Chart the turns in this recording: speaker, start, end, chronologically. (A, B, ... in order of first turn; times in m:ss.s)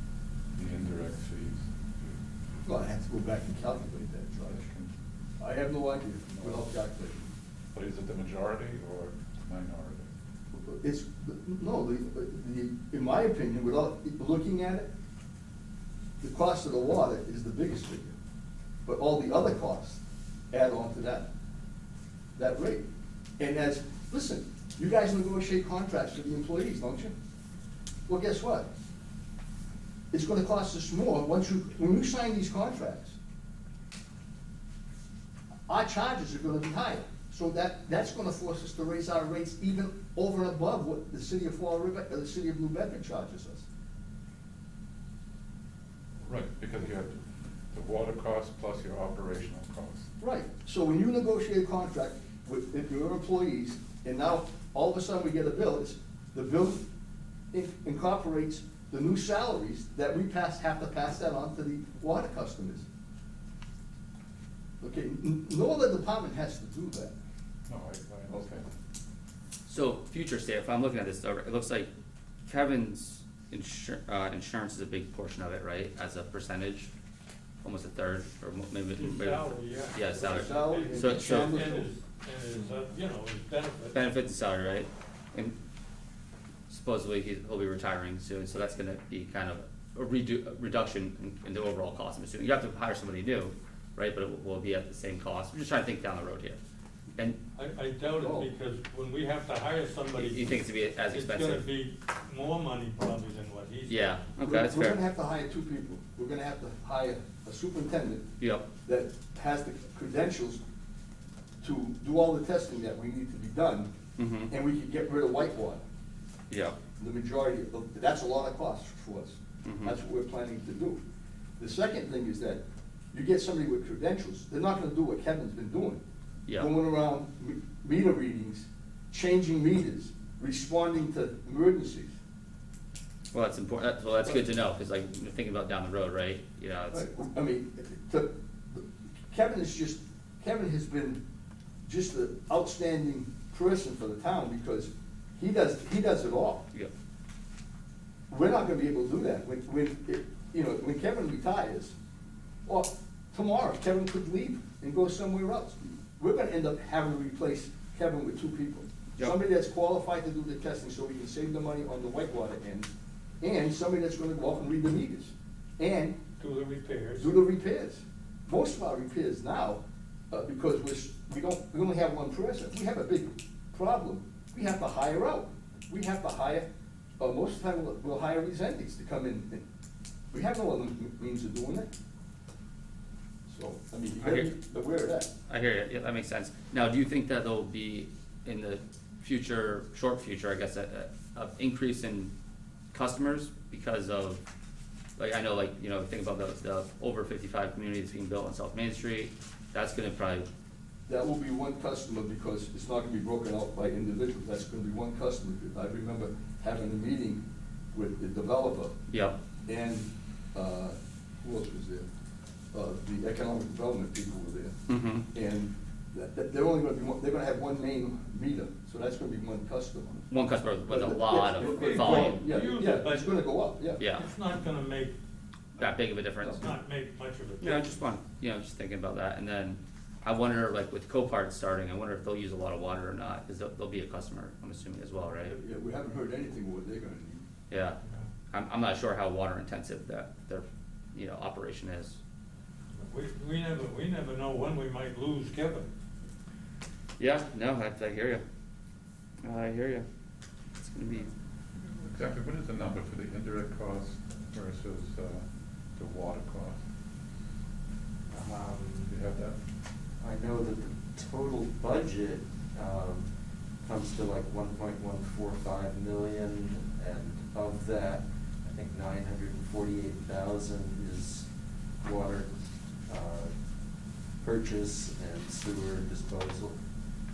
0:00.5-0:01.7 A
0:02.6-0:04.6 B
0:04.5-0:04.9 A
0:05.4-0:07.3 B
0:06.3-0:06.6 A
0:07.7-0:10.1 A
0:10.5-0:14.9 B
0:16.2-0:18.1 B
0:18.8-0:21.3 B
0:22.4-0:22.8 B
0:23.4-0:27.2 B
0:28.1-0:28.7 B
0:30.1-0:33.2 B
0:35.7-0:43.7 B
0:46.2-0:47.2 A
0:47.7-0:50.1 A
0:50.2-0:56.8 B
0:57.5-1:02.8 B
1:04.8-1:07.2 B
1:07.7-1:08.7 A
1:08.3-1:08.6 B
1:09.7-1:11.9 C
1:12.5-1:16.9 C
1:17.6-1:21.6 C
1:19.0-1:24.0 D
1:20.2-1:21.9 B
1:23.9-1:25.6 C
1:26.7-1:36.6 C
1:37.6-1:44.2 D
1:38.2-1:38.5 B
1:40.2-1:41.6 C
1:43.9-1:45.0 C
1:44.4-1:48.3 B
1:48.4-1:48.7 C
1:48.8-1:50.6 B
1:51.6-1:53.9 B
1:54.2-1:54.5 C
1:54.5-1:55.8 B
1:56.5-1:56.8 C
1:57.0-2:01.0 B
1:59.6-1:59.9 C
2:01.6-2:02.6 B
2:03.1-2:06.0 B
2:06.6-2:12.1 B
2:13.3-2:17.0 C
2:16.9-2:21.2 B
2:21.8-2:26.6 B
2:28.3-2:31.9 B
2:32.6-2:42.9 B
2:43.4-2:46.2 B
2:46.4-2:47.3 D
2:47.2-2:56.7 B
2:57.2-2:59.6 B
3:00.3-3:01.9 B
3:03.5-3:05.3 B
3:04.2-3:04.5 C
3:05.5-3:12.3 C
3:12.9-3:14.4 C
3:15.2-3:20.5 C
3:21.1-3:27.4 B
3:27.9-3:28.9 B
3:29.1-3:29.4 C
3:29.7-3:32.1 B
3:32.7-3:34.8 B
3:34.9-3:35.2 C
3:35.3-3:40.2 B
3:40.3-3:42.4 C
3:40.9-3:44.0 B
3:41.6-3:43.4 D
3:44.0-3:44.2 C
3:44.0-3:45.1 D
3:45.8-3:46.6 C
3:46.6-3:48.0 D
3:47.6-3:55.6 C
3:55.5-3:57.4 B
3:57.7-3:58.0 C
3:58.5-4:02.2 C
4:03.1-4:05.9 D
4:07.2-4:08.4 C
4:09.4-4:10.0 C
4:10.8-4:11.3 C
4:12.0-4:16.8 A
4:18.3-4:19.1 E
4:19.1-4:19.6 A
4:20.2-4:33.6 E
4:34.4-4:36.8 E